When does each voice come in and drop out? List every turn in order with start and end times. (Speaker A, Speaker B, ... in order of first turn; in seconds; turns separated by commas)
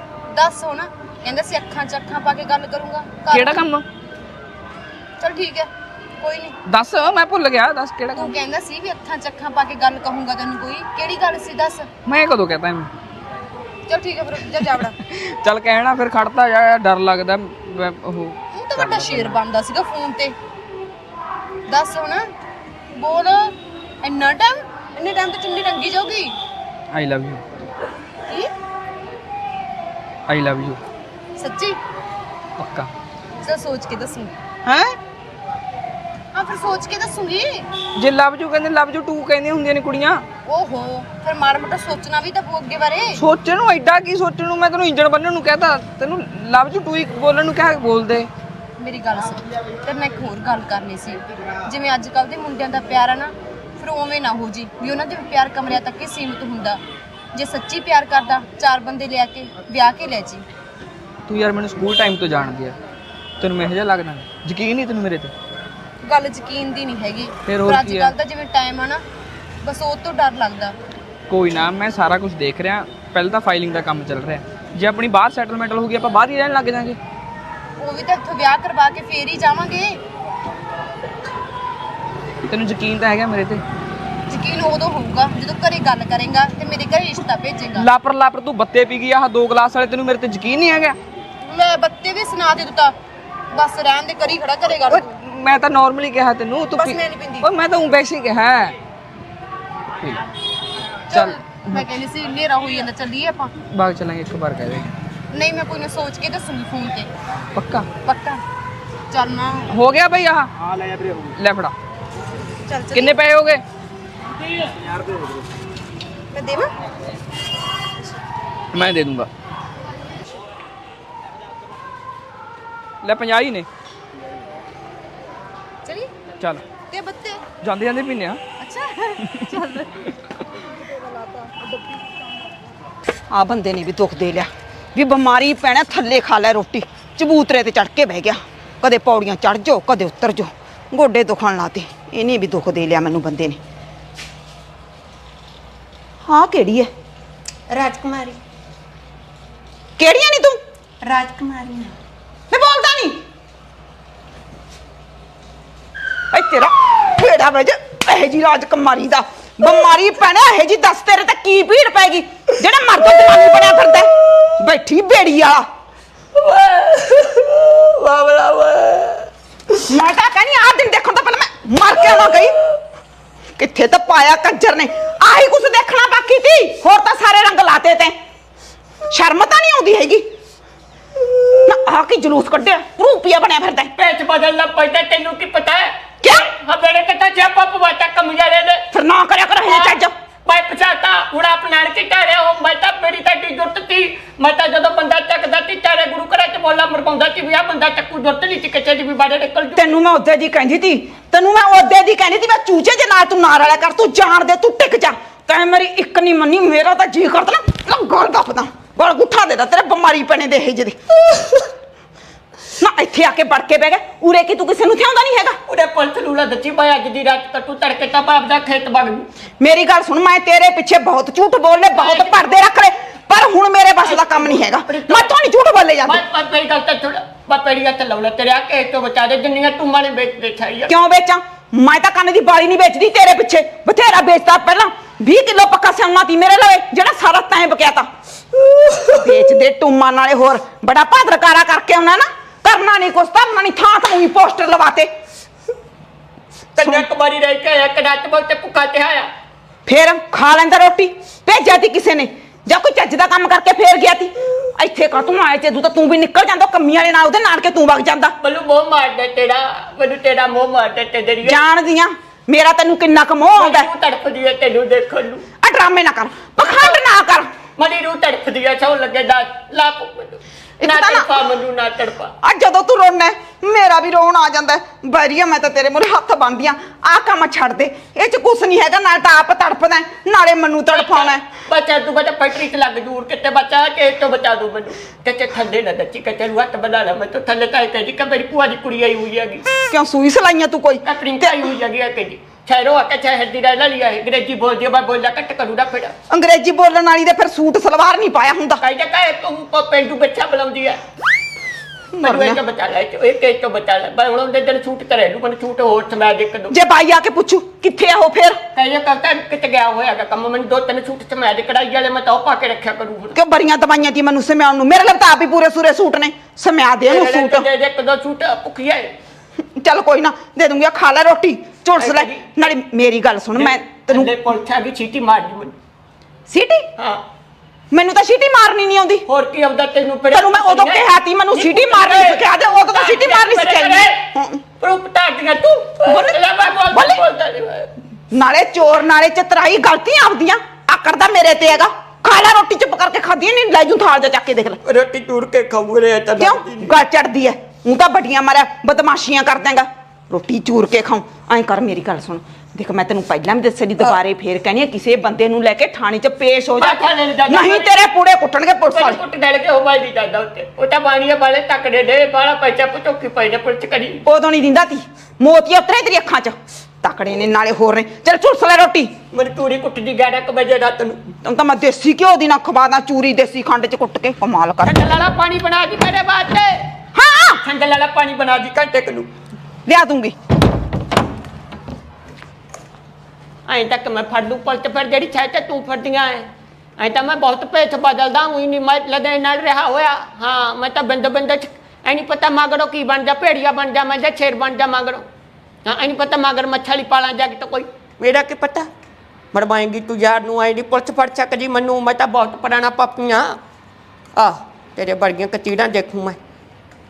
Speaker A: 0.3-3.6, Speaker B: 3.3-3.8, Speaker A: 5.2-6.6, Speaker B: 6.7-8.3, Speaker A: 8.2-11.9, Speaker B: 12.1-12.9, Speaker A: 13.9-14.9, Speaker B: 14.8-19.4, Speaker A: 18.5-20.4, Speaker A: 21.7-22.2, Speaker A: 22.9-26.4, Speaker B: 26.9-27.4, Speaker B: 30.3-30.8, Speaker A: 31.4-31.8, Speaker B: 32.6-32.9, Speaker A: 33.4-34.3, Speaker B: 34.6-34.9, Speaker A: 36.3-37.7, Speaker B: 38.0-40.2, Speaker A: 40.5-43.2, Speaker B: 43.1-48.3, Speaker A: 48.8-56.8, Speaker A: 57.3-60.4, Speaker B: 61.3-62.8, Speaker B: 63.4-65.3, Speaker A: 66.0-69.0, Speaker B: 67.5-68.1, Speaker A: 69.6-70.8, Speaker B: 71.3-77.0, Speaker A: 77.8-80.0, Speaker B: 82.5-83.6, Speaker A: 84.3-87.9, Speaker B: 87.8-91.0, Speaker A: 91.4-92.9, Speaker A: 93.5-95.1, Speaker B: 94.9-98.7, Speaker A: 96.8-97.5, Speaker A: 101.1-103.5, Speaker B: 101.1-101.8, Speaker B: 103.7-104.9, Speaker A: 105.3-107.1, Speaker B: 107.5-107.9, Speaker A: 108.0-108.4, Speaker A: 109.1-109.7, Speaker B: 109.7-110.5, Speaker B: 111.2-111.7, Speaker A: 112.7-113.2, Speaker B: 112.9-113.6, Speaker A: 116.3-116.7, Speaker B: 118.7-119.3, Speaker B: 123.0-123.7, Speaker A: 126.9-127.5, Speaker B: 127.6-128.4, Speaker A: 128.6-129.9, Speaker A: 130.9-131.7, Speaker C: 133.3-143.6, Speaker C: 146.2-146.9, Speaker D: 147.7-148.3, Speaker C: 150.0-150.6, Speaker D: 151.0-151.9, Speaker C: 152.5-153.2, Speaker C: 156.3-165.7, Speaker D: 166.3-169.2, Speaker C: 169.9-172.5, Speaker C: 173.6-178.2, Speaker C: 179.1-180.2, Speaker C: 181.7-183.9, Speaker D: 183.9-188.8, Speaker C: 186.2-186.5, Speaker C: 188.9-190.1, Speaker D: 189.6-200.0, Speaker C: 199.7-211.0, Speaker C: 212.8-215.6, Speaker D: 215.7-219.3, Speaker C: 219.6-226.2, Speaker D: 221.9-222.6, Speaker D: 224.0-225.3, Speaker D: 226.0-231.0, Speaker C: 230.9-238.1, Speaker C: 239.0-245.1, Speaker D: 246.8-249.3, Speaker C: 246.8-247.1, Speaker C: 249.8-258.3, Speaker D: 258.4-261.6, Speaker C: 261.4-263.9, Speaker D: 263.5-265.4, Speaker C: 265.6-267.5, Speaker D: 266.6-267.0, Speaker D: 267.8-272.3, Speaker C: 270.8-271.3, Speaker C: 272.4-281.4, Speaker D: 280.9-289.6, Speaker C: 289.8-291.7, Speaker D: 291.0-296.1, Speaker C: 296.3-298.8, Speaker D: 298.8-301.0, Speaker C: 302.1-302.6, Speaker D: 302.2-306.8, Speaker C: 306.7-308.6, Speaker D: 308.7-313.4, Speaker C: 313.3-317.7, Speaker D: 317.0-319.1, Speaker C: 319.8-324.3, Speaker D: 322.0-322.6, Speaker D: 323.5-325.7, Speaker C: 326.5-326.9, Speaker D: 326.9-327.2, Speaker C: 327.9-329.2, Speaker D: 329.2-334.2, Speaker C: 330.3-334.6, Speaker D: 334.8-337.9, Speaker C: 336.1-337.2, Speaker C: 338.3-344.8, Speaker D: 344.8-347.0, Speaker C: 346.4-359.2, Speaker D: 356.8-358.1, Speaker D: 358.9-364.2, Speaker C: 364.2-369.1, Speaker D: 369.3-371.2, Speaker C: 371.4-375.0, Speaker D: 374.8-376.8, Speaker C: 377.1-377.6, Speaker D: 377.6-379.3, Speaker C: 379.9-380.3, Speaker D: 383.7-395.2, Speaker D: 395.9-398.9, Speaker D: 399.5-403.6, Speaker D: 404.4-406.4